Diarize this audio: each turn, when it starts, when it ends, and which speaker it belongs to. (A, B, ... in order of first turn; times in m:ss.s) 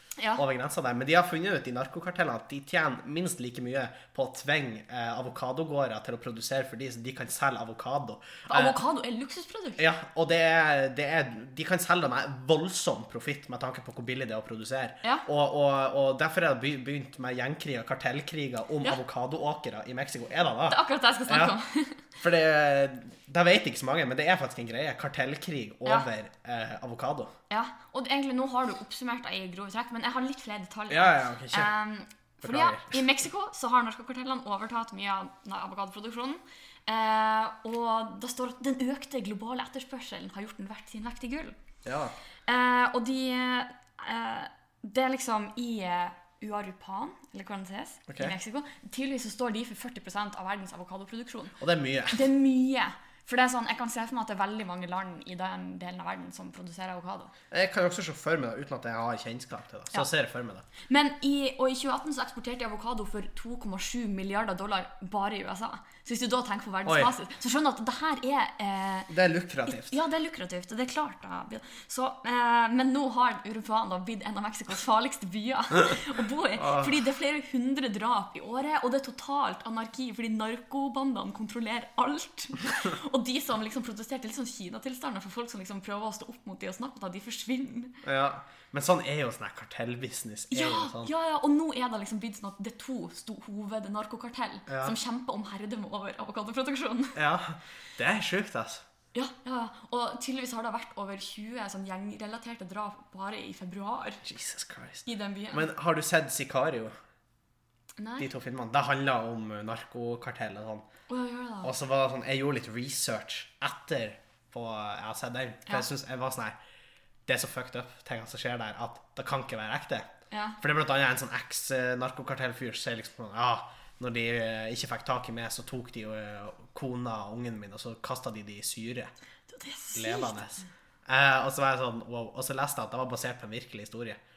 0:00.2-0:00.4 A
0:00.4-0:08.8 B
0:08.5-0:09.8 A
0:09.8-0:21.5 B
0:20.7-0:22.0 A
0:22.2-0:27.3 B
0:27.5-0:41.5 A
0:30.9-0:31.7 B
0:32.4-0:33.0 B
0:41.8-0:42.1 B
0:42.5-0:51.6 A
0:48.1-0:48.3 B
0:51.6-0:52.2 B
0:52.1-0:57.3 A
0:57.5-1:00.7 B
1:00.9-1:09.1 A
1:06.9-1:07.1 B
1:09.1-1:10.0 B
1:09.7-1:28.0 A
1:16.6-1:17.0 B
1:28.0-1:31.1 B
1:30.5-1:37.2 A
1:34.7-1:35.0 B
1:37.2-1:38.8 B
1:39.1-1:44.2 A
1:44.2-1:46.9 B
1:45.1-1:45.7 A
1:48.0-1:48.3 A
1:48.2-1:50.8 B
1:51.1-1:51.7 A
1:51.6-1:56.6 B
1:57.3-2:09.1 B
2:00.3-2:00.6 A
2:09.5-2:10.4 A
2:09.9-2:14.2 B